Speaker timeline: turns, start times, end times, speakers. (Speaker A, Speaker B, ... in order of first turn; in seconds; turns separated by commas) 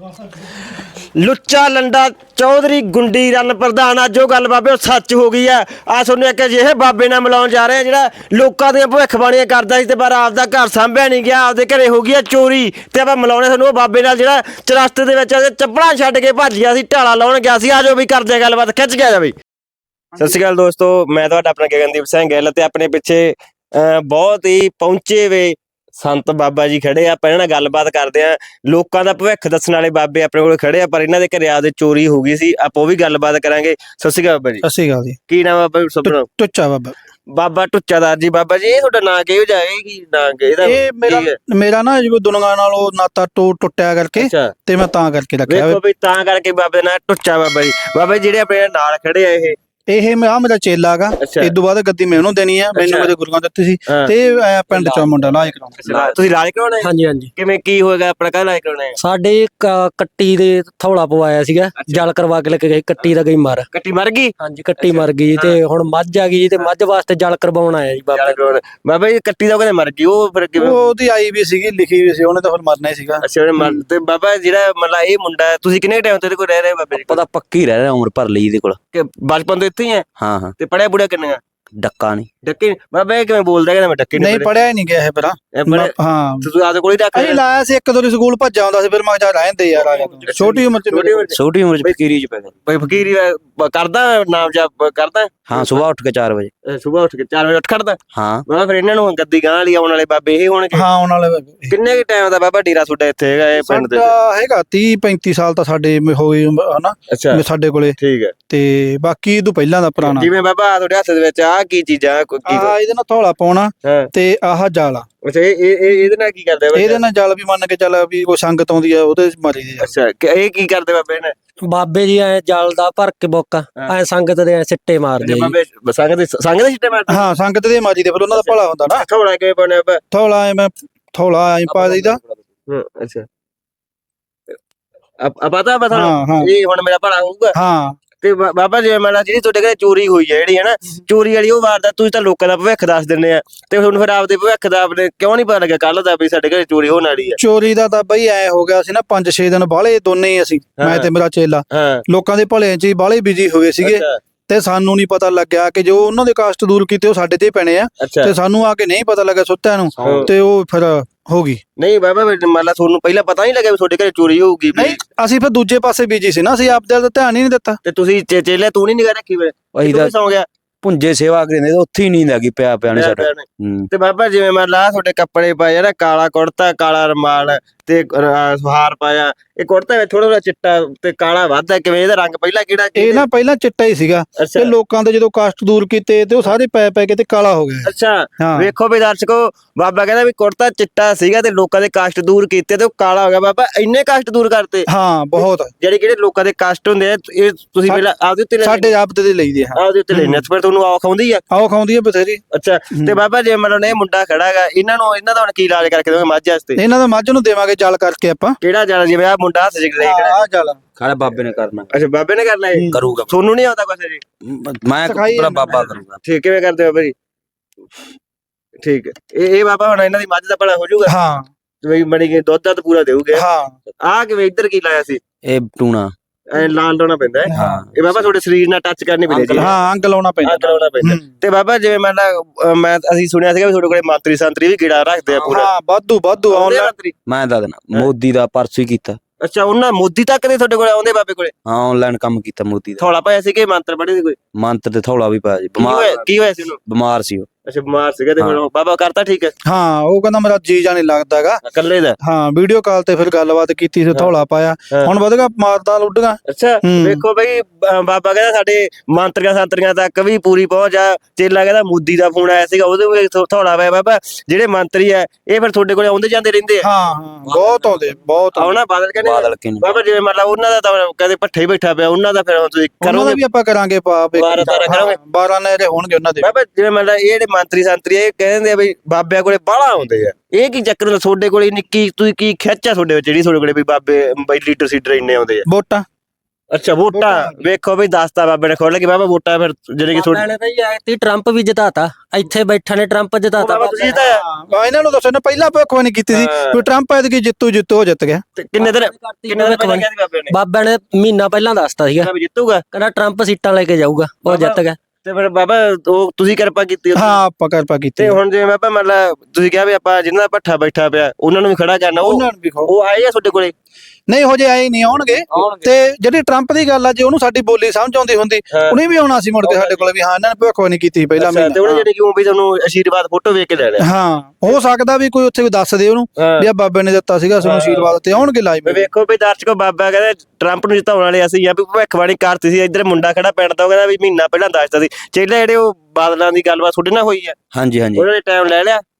Speaker A: 0.8-19.3, Speaker A: 20.2-34.6, Speaker B: 34.6-35.2, Speaker A: 35.3-36.3, Speaker B: 36.0-36.9, Speaker A: 37.3-41.4, Speaker B: 40.6-45.8, Speaker A: 44.2-44.5, Speaker A: 45.5-49.5, Speaker B: 49.9-55.8, Speaker A: 51.2-51.5, Speaker A: 52.7-53.1, Speaker A: 53.9-54.1, Speaker A: 54.7-55.0, Speaker A: 55.8-59.0, Speaker C: 55.9-56.2, Speaker D: 56.8-57.3, Speaker D: 59.0-63.7, Speaker A: 61.8-62.0, Speaker A: 63.7-65.6, Speaker D: 64.4-68.4, Speaker A: 68.1-70.8, Speaker B: 70.6-73.2, Speaker A: 73.2-77.2, Speaker C: 76.9-78.8, Speaker A: 78.9-80.0, Speaker C: 80.2-80.5, Speaker A: 80.6-81.4, Speaker C: 81.8-82.3, Speaker A: 82.4-84.5, Speaker B: 84.2-86.5, Speaker A: 85.5-87.4, Speaker B: 87.1-91.2, Speaker A: 89.7-91.9, Speaker C: 91.3-92.5, Speaker A: 92.7-95.8, Speaker C: 95.5-96.5, Speaker A: 96.7-100.8, Speaker C: 98.1-98.4, Speaker B: 100.7-101.7, Speaker A: 101.7-104.1, Speaker B: 103.6-108.0, Speaker A: 107.1-107.4, Speaker A: 108.0-108.3, Speaker B: 108.5-110.3, Speaker A: 110.0-112.7, Speaker B: 112.5-115.1, Speaker A: 115.2-117.0, Speaker B: 116.7-119.9, Speaker A: 119.8-121.3, Speaker D: 121.7-125.5, Speaker A: 125.2-127.2, Speaker B: 127.1-129.1, Speaker A: 128.3-130.0, Speaker B: 130.1-132.2, Speaker C: 131.7-132.4, Speaker A: 132.7-133.2, Speaker A: 135.2-137.6, Speaker B: 135.9-136.5, Speaker B: 137.5-137.9, Speaker A: 138.2-147.4, Speaker B: 147.4-161.6, Speaker A: 150.8-151.1, Speaker A: 151.7-152.0, Speaker A: 153.8-154.2, Speaker A: 158.0-158.3, Speaker C: 159.9-160.3, Speaker A: 160.0-160.3, Speaker A: 161.8-165.0, Speaker B: 164.7-167.8, Speaker A: 167.8-170.5, Speaker C: 169.8-170.1, Speaker C: 170.8-173.9, Speaker A: 172.9-183.2, Speaker B: 182.9-188.7, Speaker A: 184.4-184.7, Speaker A: 187.8-198.9, Speaker B: 194.9-195.7, Speaker B: 198.6-200.4, Speaker A: 199.7-201.4, Speaker B: 201.5-202.4, Speaker A: 202.5-206.8, Speaker B: 202.9-203.2, Speaker B: 206.8-208.6, Speaker A: 208.6-210.4, Speaker B: 210.0-210.8, Speaker C: 211.0-211.9, Speaker A: 211.9-214.2, Speaker C: 212.9-213.3, Speaker C: 214.4-216.2, Speaker B: 215.0-216.0, Speaker A: 216.2-217.1, Speaker A: 218.8-221.1, Speaker B: 221.1-221.5, Speaker A: 221.8-223.4, Speaker B: 223.3-223.7, Speaker A: 224.0-225.2, Speaker C: 225.4-226.1, Speaker A: 226.5-229.7, Speaker B: 227.5-227.8, Speaker C: 227.5-228.3, Speaker C: 229.3-229.7, Speaker B: 229.6-231.2, Speaker A: 230.4-235.7, Speaker C: 235.3-235.6, Speaker B: 235.5-236.9, Speaker A: 236.5-237.1, Speaker C: 237.3-239.2, Speaker A: 239.4-241.5, Speaker C: 241.6-243.0, Speaker A: 243.0-244.4, Speaker C: 244.5-246.3, Speaker A: 245.8-246.8, Speaker C: 246.9-247.5, Speaker A: 247.7-249.5, Speaker B: 249.7-251.6, Speaker A: 251.6-252.2, Speaker B: 252.2-257.2, Speaker A: 256.5-266.9, Speaker B: 266.8-268.7, Speaker A: 267.5-267.8, Speaker A: 268.5-273.4, Speaker C: 269.2-270.0, Speaker B: 273.0-276.5, Speaker A: 274.3-275.2, Speaker A: 276.4-285.6, Speaker B: 285.6-286.0, Speaker A: 286.7-290.4, Speaker B: 287.1-287.6, Speaker D: 290.1-294.2, Speaker A: 293.6-294.4, Speaker B: 294.2-298.4, Speaker A: 296.3-296.8, Speaker A: 298.6-300.5, Speaker D: 298.8-302.3, Speaker A: 302.2-302.8, Speaker D: 302.9-305.0, Speaker A: 304.4-307.4, Speaker B: 307.1-308.4, Speaker A: 308.2-313.7, Speaker B: 312.2-312.9, Speaker B: 314.3-321.9, Speaker A: 315.5-315.9, Speaker A: 318.7-319.0, Speaker A: 319.6-320.1, Speaker A: 321.4-324.0, Speaker B: 324.0-329.1, Speaker A: 326.4-326.7, Speaker A: 327.6-337.6, Speaker C: 337.7-338.3, Speaker A: 338.1-339.0